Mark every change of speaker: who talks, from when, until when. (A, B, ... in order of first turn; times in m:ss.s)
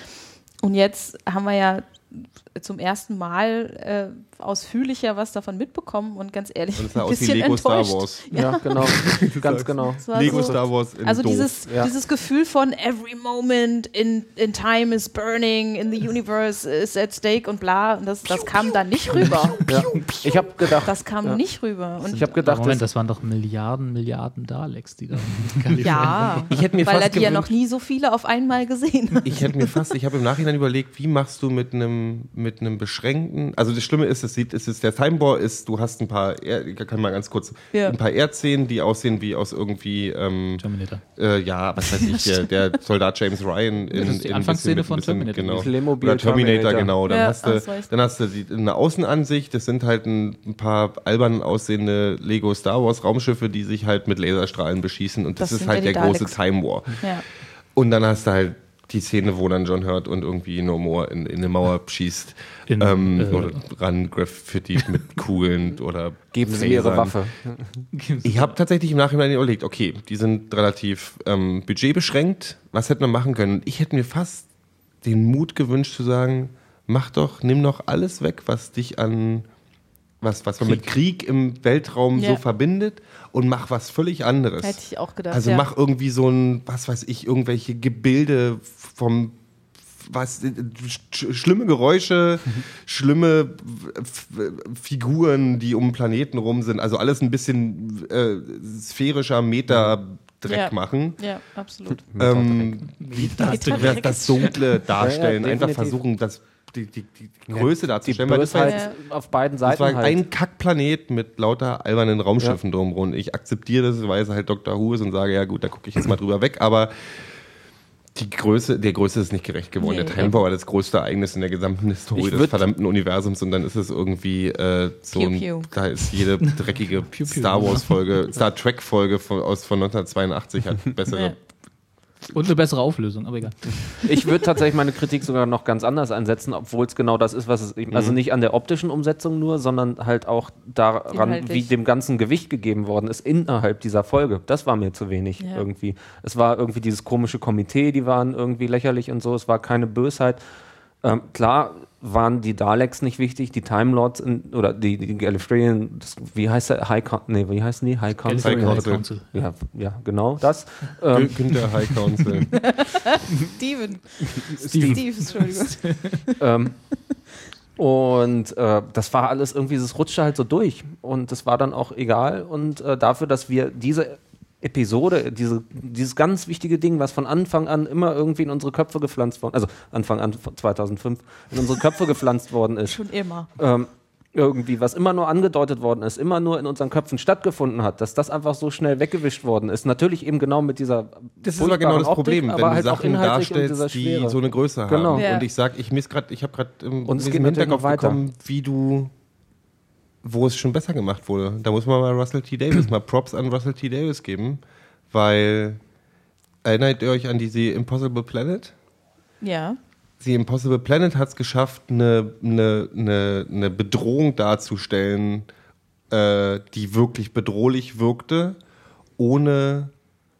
0:00.6-0:08.6 A
0:06.8-0:08.2 B
0:08.3-0:10.6 C
0:08.8-0:11.6 B
0:10.0-0:22.4 A
0:19.2-0:20.0 B
0:19.6-0:21.4 C
0:22.0-0:22.8 C
0:22.4-0:26.6 D
0:25.8-0:29.6 A
0:26.4-0:27.5 B
0:29.2-0:40.6 B
0:40.6-0:41.0 D
0:41.2-0:57.0 B
0:43.9-0:45.7 D
0:45.5-0:46.9 C
0:47.1-0:47.9 A
0:55.4-0:56.4 A
0:57.8-1:07.2 B
1:02.7-1:03.6 D
1:06.3-1:07.8 C
1:07.9-1:08.6 D
1:08.2-1:14.5 B
1:15.0-1:19.5 B
1:20.2-1:24.8 B
1:22.1-1:22.4 A
1:24.6-1:25.7 A
1:25.3-1:29.4 B
1:30.0-1:41.2 B
1:40.4-1:42.0 A
1:42.1-1:42.8 C
1:42.2-1:48.9 B
1:42.9-1:44.6 D
1:43.4-1:44.5 A
1:45.0-1:46.0 C
1:47.5-1:50.2 C
1:48.6-1:49.0 A
1:49.6-1:56.9 B
1:58.1-2:11.4 B
1:59.8-2:00.4 A
2:02.2-2:02.6 C
2:05.1-2:05.7 A
2:06.4-2:08.1 D
2:11.1-2:11.4 A
2:12.3-2:14.1 D
2:14.0-2:30.4 C
2:17.9-2:18.2 B
2:21.1-2:21.7 A
2:25.4-2:25.6 A
2:31.0-2:41.4 C
2:38.2-2:39.3 D
2:38.4-2:39.0 B
2:41.1-2:42.5 B
2:41.9-2:42.2 D
2:42.5-2:46.4 A
2:44.6-2:45.0 C
2:44.6-2:46.2 D
2:46.4-2:46.8 C
2:47.8-3:03.0 C
3:02.9-3:03.5 A
3:03.6-3:15.3 C
3:11.4-3:19.1 B
3:15.1-3:15.5 A
3:17.1-3:18.2 C
3:20.2-3:25.8 B
3:26.6-3:28.7 B
3:29.4-3:29.8 A
3:30.2-3:35.5 B
3:36.1-3:38.6 B
3:39.2-3:39.9 B